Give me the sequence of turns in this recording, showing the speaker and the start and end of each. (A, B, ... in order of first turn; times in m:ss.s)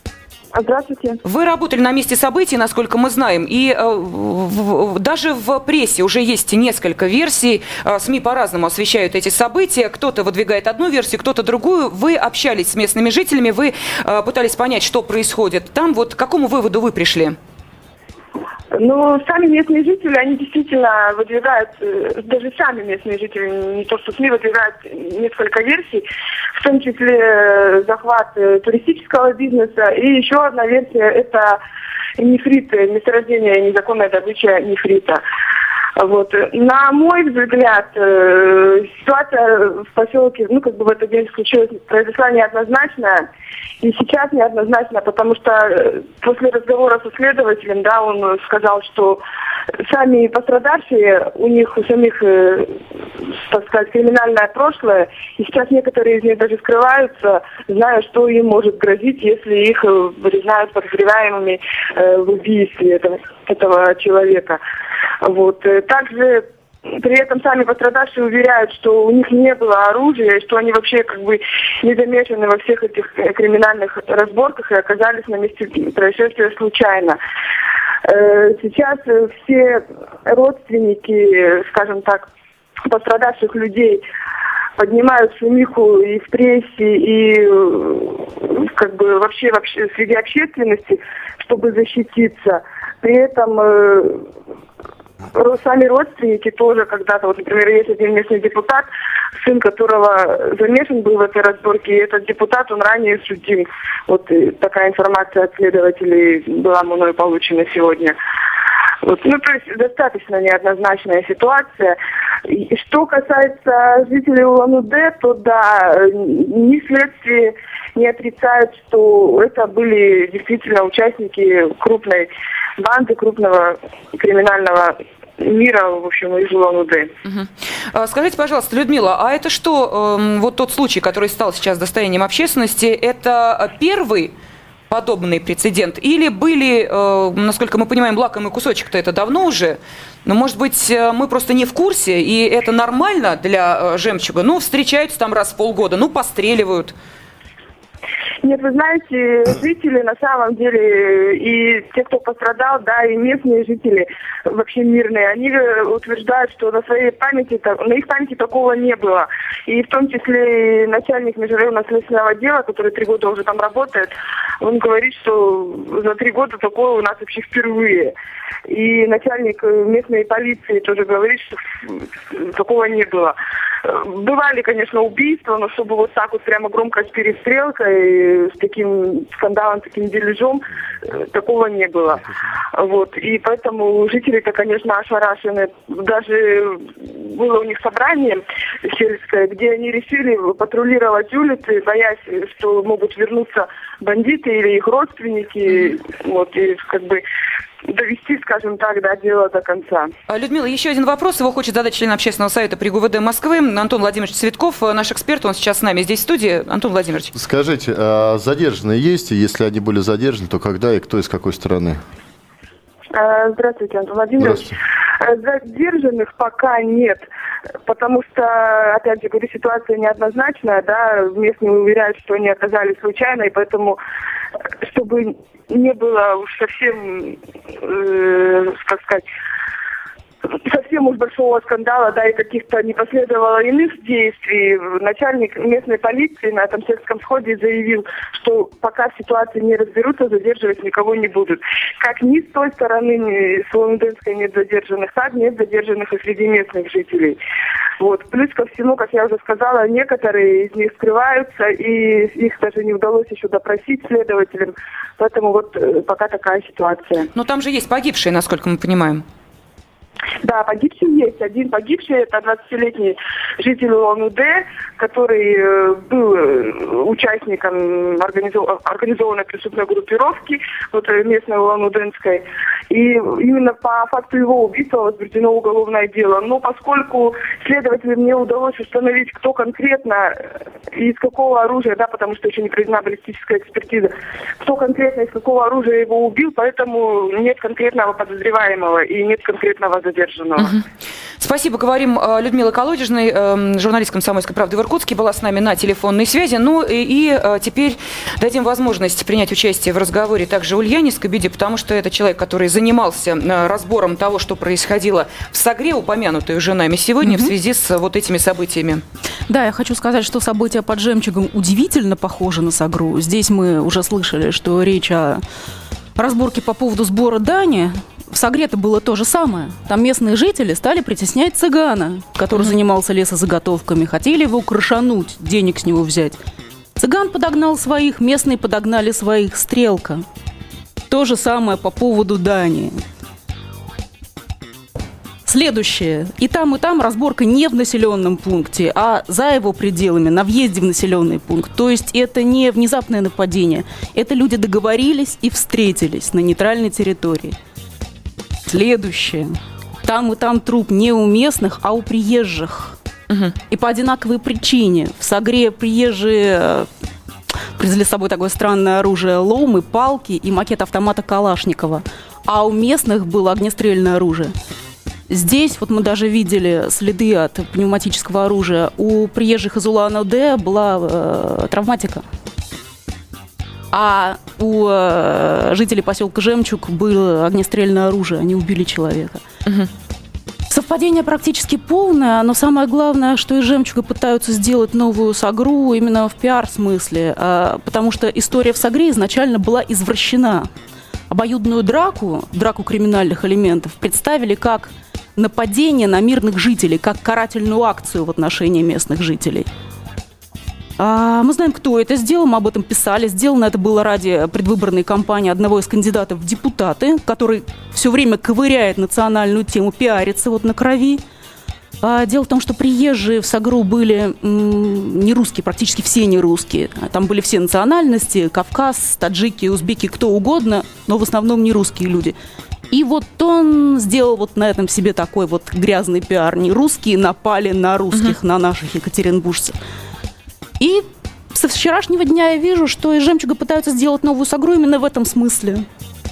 0:00.5-0:01.2 A
0:01.2-0:17.4 B
0:18.7-0:31.6 A
0:32.2-0:35.2 A
0:36.0-0:43.2 A
0:43.8-0:49.2 A
0:49.8-0:52.8 A
0:53.3-1:04.6 A
1:05.2-1:17.2 A
1:18.0-1:22.3 A
1:22.8-1:24.0 A
1:24.8-1:34.3 A
1:35.3-1:48.1 A
1:49.0-2:07.1 A
2:07.2-2:14.3 B
2:14.9-2:26.9 B
2:28.4-2:48.1 A
2:48.7-3:17.2 A
3:17.8-3:20.1 A
3:20.3-3:27.3 B
3:27.3-3:32.0 C
3:33.1-3:37.2 A
3:34.4-3:34.7 C
3:37.8-3:44.0 A
3:44.8-3:49.2 A
3:50.6-4:07.4 A
4:08.0-4:17.3 A
4:17.3-4:19.2 B
4:20.4-4:50.8 A
4:51.4-5:09.0 B
5:07.2-5:07.5 D
5:09.5-5:15.4 D
5:16.2-5:26.4 D
5:27.0-5:30.2 D
5:31.1-5:33.0 D
5:35.4-5:47.6 D
5:48.6-5:52.9 D
5:53.3-5:53.5 B
5:53.7-5:56.9 D
5:57.8-6:04.5 D
6:05.3-6:12.2 D
6:13.9-6:19.4 D
6:20.7-6:30.7 D
6:31.3-6:39.7 D
6:41.0-6:51.2 D
6:52.0-7:02.4 D
7:02.9-7:09.8 D
7:10.8-7:15.8 D